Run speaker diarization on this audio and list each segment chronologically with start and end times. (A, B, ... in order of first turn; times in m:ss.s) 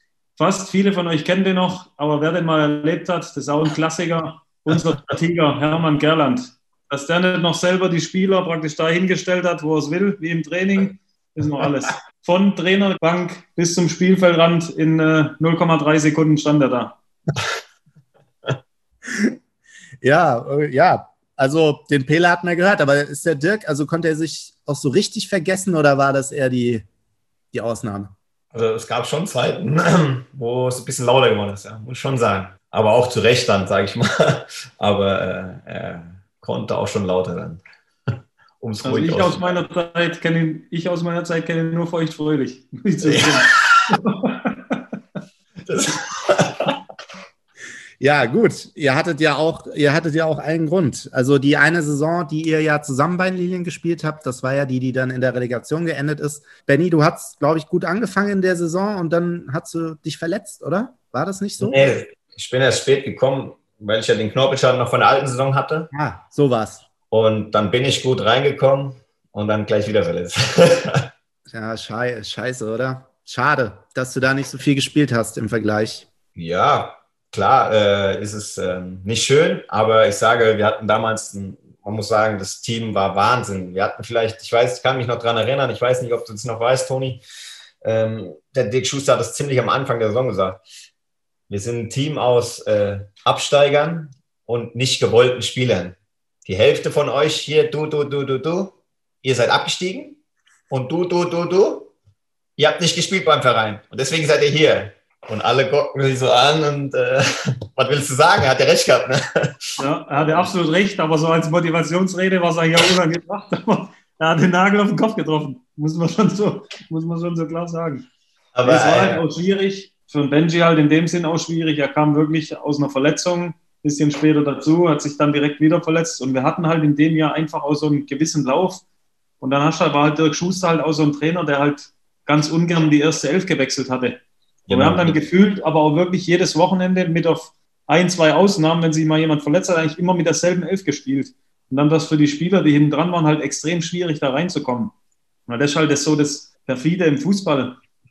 0:00.4-0:17.0 A
0:19.0-0:19.4 B
0:20.0-0:26.9 B
0:27.5-0:28.1 B
0:28.5-0:37.6 C
0:38.6-0:39.6 C
0:38.8-0:44.8 A
0:43.0-0:43.9 C
0:45.7-0:46.8 C
0:48.0-1:01.9 B
1:01.6-1:05.9 C
1:05.9-1:06.8 B
1:07.1-1:11.1 C
1:11.5-1:16.1 B
1:16.4-1:27.2 C
1:27.8-1:30.6 C
1:31.5-1:40.2 C
1:40.7-1:41.9 C
1:42.6-1:50.5 C
1:49.8-1:58.1 A
1:58.5-1:59.2 C
1:58.6-2:08.8 A
2:09.4-2:24.9 A
2:14.7-2:15.2 C
2:25.5-2:27.8 A